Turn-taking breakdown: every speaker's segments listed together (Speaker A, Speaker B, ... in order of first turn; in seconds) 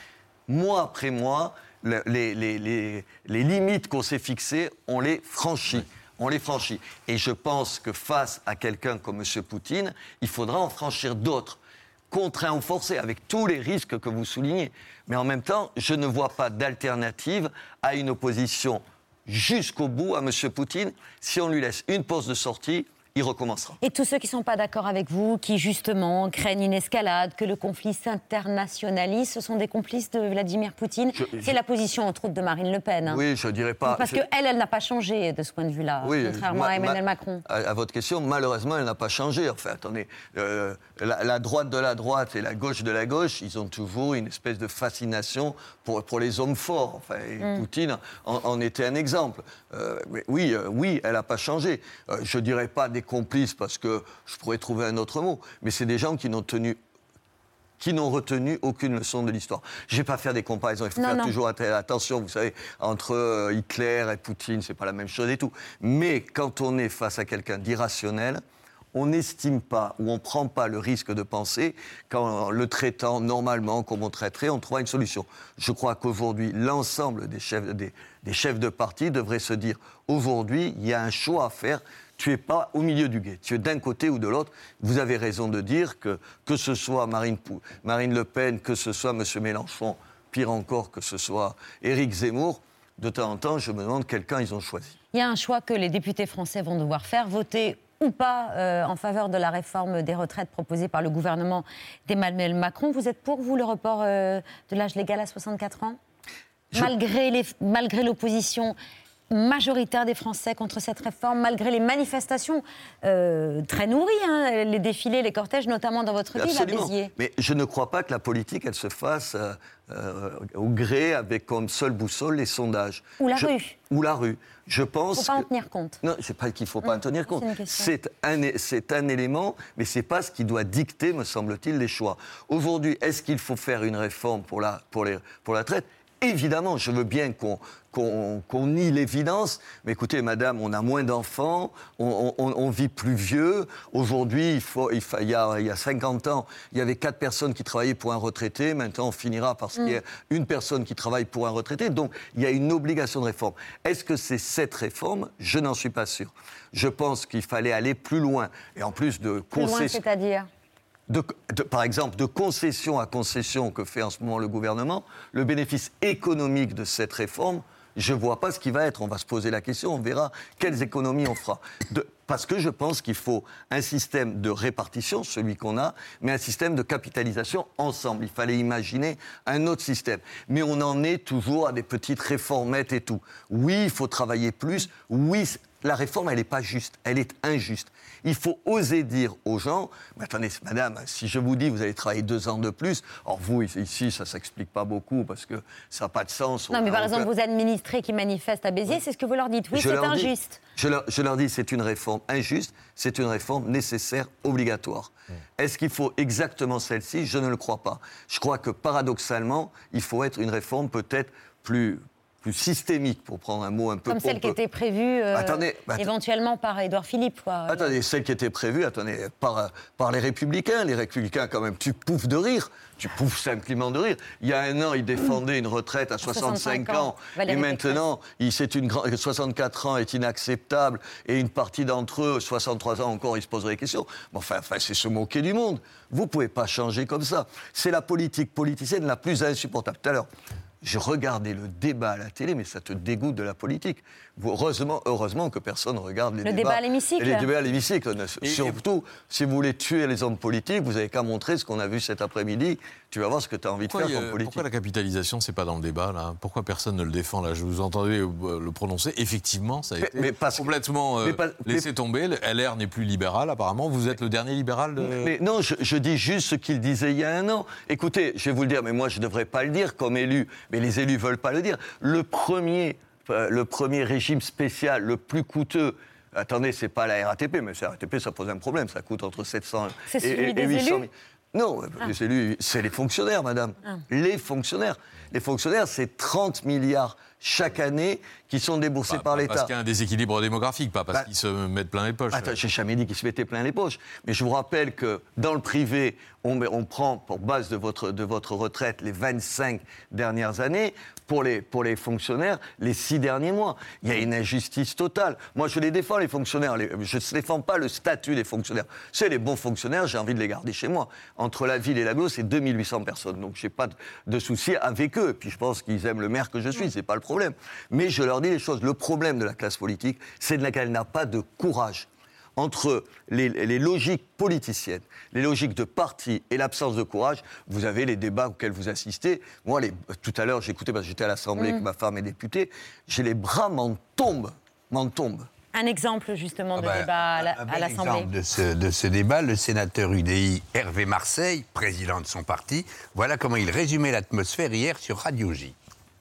Speaker A: 0.5-23.8, 31.2-31.5, 33.0-34.2, 36.0-56.8, 57.8-68.4, 68.9-95.0, 116.3-125.5, 126.0-160.0, 161.1-197.3, 199.7-214.6, 215.3-216.1, 217.7-240.3, 240.8-254.6, 260.0-260.7, 261.2-261.9, 265.0-289.7, 292.3-335.5
Speaker B: 23.8-33.2, 33.8-37.4, 61.0-61.3, 95.1-106.0, 106.7-108.8, 109.3-117.1, 123.2-123.8, 125.1-126.0, 126.8-127.9, 159.5-160.5, 196.7-200.6, 214.1-217.9, 226.2-228.0, 246.4-247.5, 280.1-281.1, 331.6-331.8, 335.7-338.3
Speaker C: 248.4-248.8, 253.9-265.3, 289.1-292.6
Speaker D: 336.8-345.7